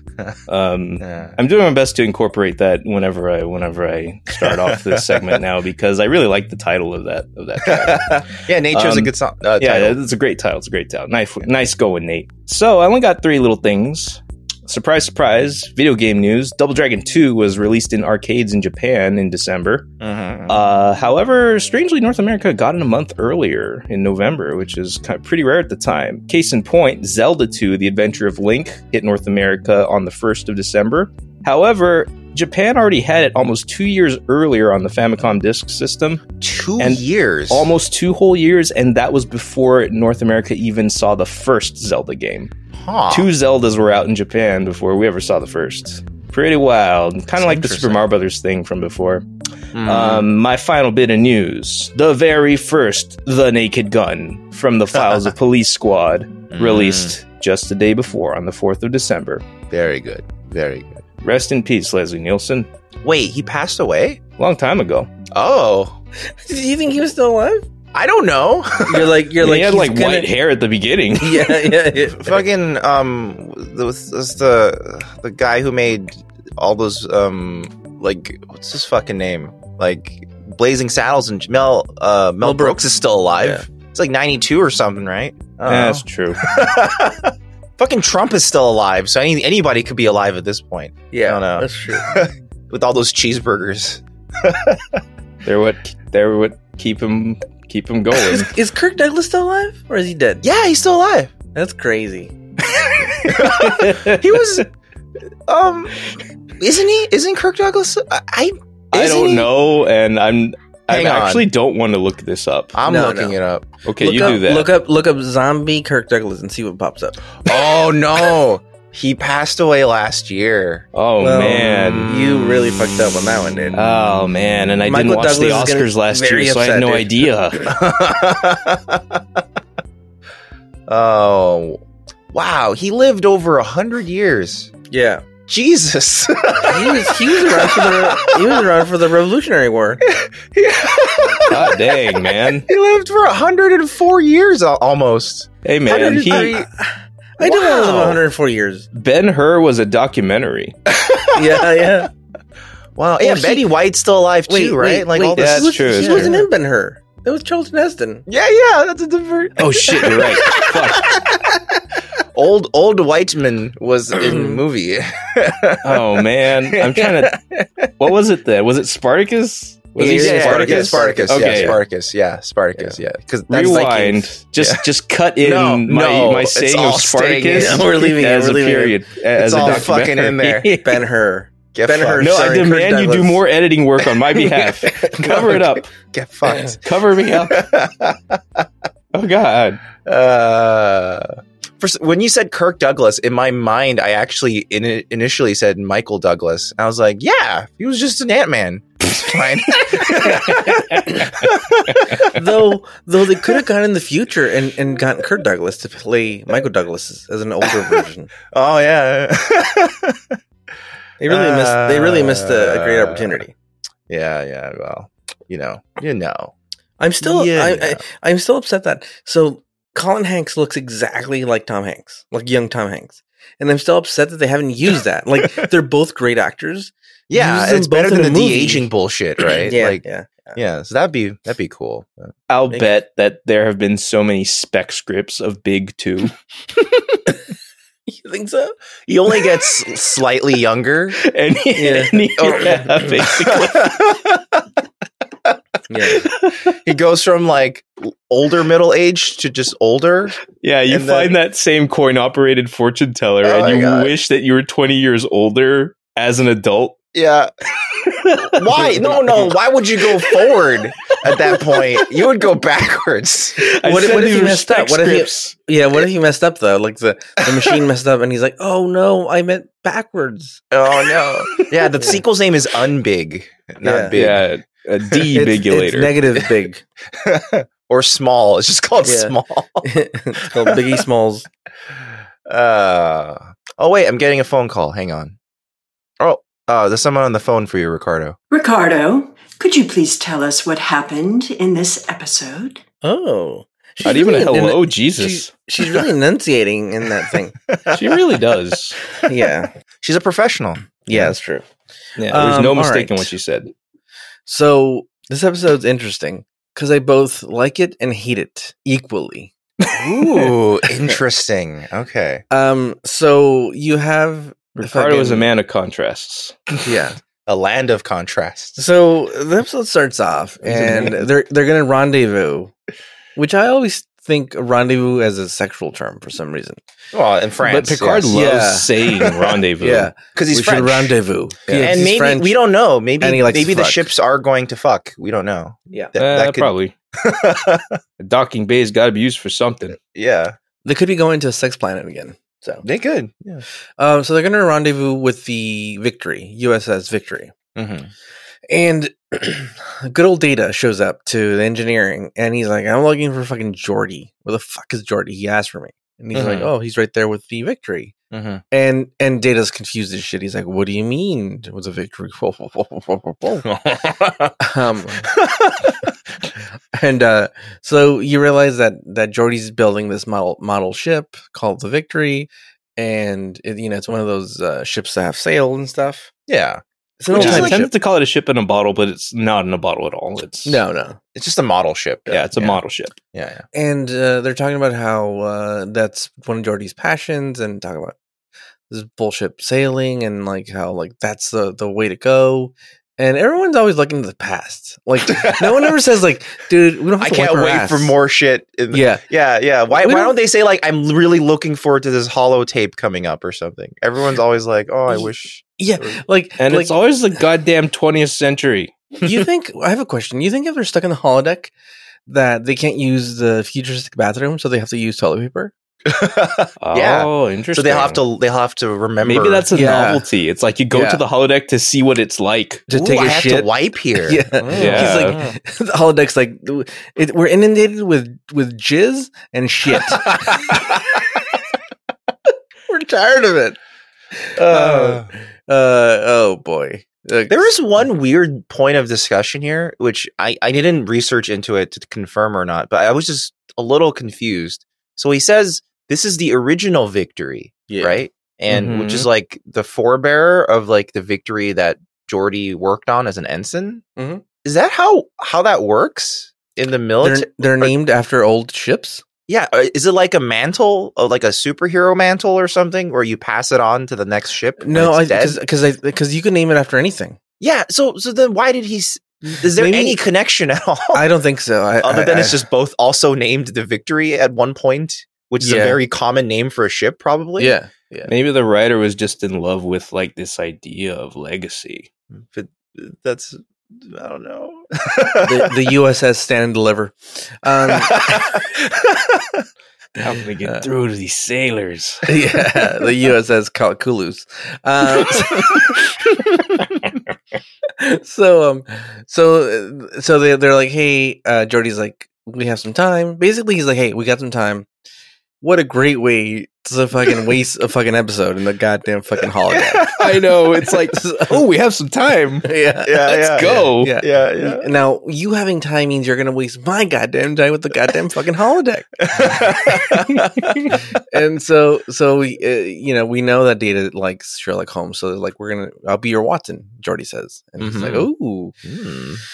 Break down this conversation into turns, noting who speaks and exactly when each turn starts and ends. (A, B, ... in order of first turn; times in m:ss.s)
0:00.5-0:19.9 A
0:01.0-0:01.4 B
0:04.4-0:05.4 B
0:07.6-0:10.0 B
0:20.0-0:20.6 B
0:20.5-0:36.2 A
0:36.4-0:37.7 B
0:36.8-0:42.5 A
0:42.8-0:43.3 B
0:43.1-0:49.2 A
0:47.4-0:48.0 B
0:49.7-0:50.3 B
0:49.8-0:59.4 A
0:54.9-0:55.3 B
0:56.5-0:57.2 B
0:59.7-1:01.0 B
1:01.2-1:02.7 A
1:03.0-1:04.2 B
1:04.4-1:05.1 A
1:05.3-1:06.0 B
1:06.2-1:07.6 C
1:07.9-1:09.1 B
1:08.8-1:10.3 C
1:09.4-1:11.8 A
1:11.2-1:12.4 C
1:12.2-1:35.0 B
1:22.4-1:22.8 C
1:25.7-1:26.4 A
1:31.1-1:32.1 C
1:35.4-1:38.5 A
1:38.1-1:40.4 C
1:40.4-1:41.3 B
1:41.6-1:42.3 C
1:43.2-1:44.6 A
1:43.2-1:44.7 B
1:45.5-1:46.0 B
1:46.6-1:49.5 B
1:48.9-1:52.8 A
1:50.9-1:51.5 B
1:52.7-1:53.7 B
1:52.9-1:53.4 C
1:53.8-1:54.7 A
1:54.0-1:57.2 C
1:57.4-2:00.9 B
2:00.9-2:02.1 A
2:01.2-2:03.9 C
2:02.0-2:02.6 B
2:03.8-2:07.7 A
2:04.9-2:07.1 C
2:07.6-2:09.2 B
2:10.9-2:14.7 B
2:14.9-2:15.2 C
2:15.5-2:18.6 B
2:16.7-2:20.0 C
2:20.1-2:21.9 B
2:21.5-2:22.7 A
2:22.7-2:26.7 B
2:25.6-2:26.6 A
2:25.9-2:28.9 C
2:27.4-2:28.2 B
2:28.9-2:30.8 A
2:31.0-2:32.1 B
2:31.3-2:32.1 C
2:33.0-2:36.4 B
2:33.2-2:33.7 C
2:34.5-2:38.3 C
2:35.3-2:36.4 A
2:38.3-2:41.5 B
2:39.6-2:41.2 A
2:42.3-2:47.4 B
2:44.2-2:44.6 C
2:45.8-2:47.4 A
2:48.0-2:51.8 A
2:50.0-2:51.8 C
2:50.0-2:54.8 B
2:53.5-3:01.0 A
2:55.4-2:58.0 B
2:57.5-2:59.0 C
2:59.4-3:00.7 B
2:59.6-2:59.9 C
3:00.8-3:03.4 C
3:01.7-3:02.7 B
3:02.2-3:06.0 A
3:04.3-3:08.6 B
3:06.8-3:07.7 A
3:09.1-3:09.8 A
3:10.0-3:22.4 B
3:20.4-3:21.3 C
3:22.3-3:28.3 C
3:27.7-3:28.0 B
3:28.5-3:30.4 B
3:31.2-3:33.6 C
3:31.3-3:33.4 B
3:34.1-3:36.5 B
3:37.0-3:48.9 C
3:37.2-3:38.0 B
3:47.3-3:50.0 B
3:49.6-3:50.6 C
3:50.6-3:52.3 B
3:52.5-3:56.3 A
3:58.1-3:58.8 C
3:59.1-4:01.2 B
4:01.2-4:04.1 A
4:01.8-4:02.6 C
4:02.4-4:04.6 B
4:05.9-4:06.3 C
4:06.2-4:06.7 A
4:06.7-4:10.4 B
4:10.6-4:17.0 A
4:10.9-4:11.4 B
4:13.4-4:14.1 B
4:17.1-4:17.5 B
4:18.2-4:18.6 A
4:18.4-4:23.6 B
4:18.8-4:19.4 C
4:23.6-4:30.6 C
4:23.7-4:25.6 A
4:30.7-4:34.4 B
4:32.0-4:32.2 C
4:33.8-4:34.2 C
4:34.1-4:36.2 A
4:35.3-4:36.8 C
4:37.1-4:40.8 B
4:39.0-4:41.5 C
4:42.5-4:45.4 B
4:46.2-4:48.4 B
4:48.5-4:52.8 D
4:53.0-4:57.6 C
4:54.0-4:55.5 A
4:57.7-4:58.0 B
4:57.9-4:59.0 A
4:59.2-4:59.7 C
5:00.0-5:01.4 B
5:01.1-5:01.7 C
5:02.2-5:03.7 A
5:02.3-5:03.3 C
5:04.5-5:09.5 C
5:09.9-5:12.4 B
5:12.5-5:15.5 C
5:14.8-5:16.8 A
5:16.8-5:17.2 C
5:17.5-5:18.8 B
5:18.8-5:22.7 C
5:20.7-5:21.2 A
5:23.4-5:26.8 C
5:27.1-5:28.3 B
5:27.6-5:30.1 A
5:28.3-5:28.9 C
5:29.8-5:32.6 C
5:30.3-5:31.2 B
5:31.7-5:38.0 B
5:33.2-5:34.1 C
5:36.2-5:36.9 A
5:38.2-5:40.0 A
5:40.0-5:40.6 B
5:40.8-5:42.8 C
5:42.8-5:43.6 B
5:44.0-5:47.5 C
5:47.8-5:48.1 B
5:48.7-5:58.1 C
5:56.3-5:56.7 B
5:58.3-5:58.6 B
5:58.7-6:03.7 C
6:03.6-6:04.6 B
6:04.6-6:05.3 C
6:05.2-6:06.1 B
6:06.9-6:16.3 C
6:16.5-6:17.9 B
6:17.2-6:17.9 C
6:17.3-6:20.8 A
6:20.6-6:21.2 C
6:21.4-6:22.8 B
6:22.3-6:23.2 A
6:23.3-6:23.6 B
6:23.7-6:28.2 C
6:28.9-6:38.1 C
6:35.3-6:35.8 B
6:37.2-6:46.2 B
6:38.9-6:39.2 C
6:39.9-6:40.4 C
6:45.8-6:47.0 C
6:46.6-6:49.0 A
6:49.2-6:51.7 C
6:52.3-6:55.7 C
6:56.1-6:59.7 B
6:56.8-6:58.2 A
6:59.2-7:02.9 A
6:59.7-7:00.3 C
7:00.9-7:01.2 C
7:02.9-7:03.7 C
7:02.9-7:05.6 B
7:04.2-7:11.0 C
7:04.7-7:05.4 A
7:10.1-7:10.8 B
7:12.9-7:13.8 C
7:14.3-7:17.7 C
7:14.6-7:15.3 B
7:17.5-7:34.0 B
7:27.9-7:28.2 C
7:28.7-7:29.3 A
7:34.2-7:34.4 C
7:34.6-7:37.9 B
7:37.2-7:39.2 C
7:39.5-7:45.6 B
7:44.8-7:47.4 C
7:47.6-7:51.2 B
7:49.6-7:50.2 C
7:51.1-7:52.6 C
7:52.0-7:57.8 B
7:55.6-7:56.0 C
7:57.6-7:58.3 C
7:58.3-8:02.1 A
8:02.4-8:05.9 B
8:05.4-8:08.2 C
8:07.9-8:09.7 B
8:10.2-8:12.3 A
8:12.3-8:16.0 C
8:18.0-8:24.9 C
8:25.6-8:30.1 C
8:29.7-8:30.4 B
8:30.1-8:34.2 A
8:31.1-8:31.6 C
8:32.6-8:39.7 C
8:33.1-8:34.9 B
8:39.3-8:41.0 B
8:40.9-8:48.7 C
8:47.8-8:48.3 B
8:48.8-8:49.4 B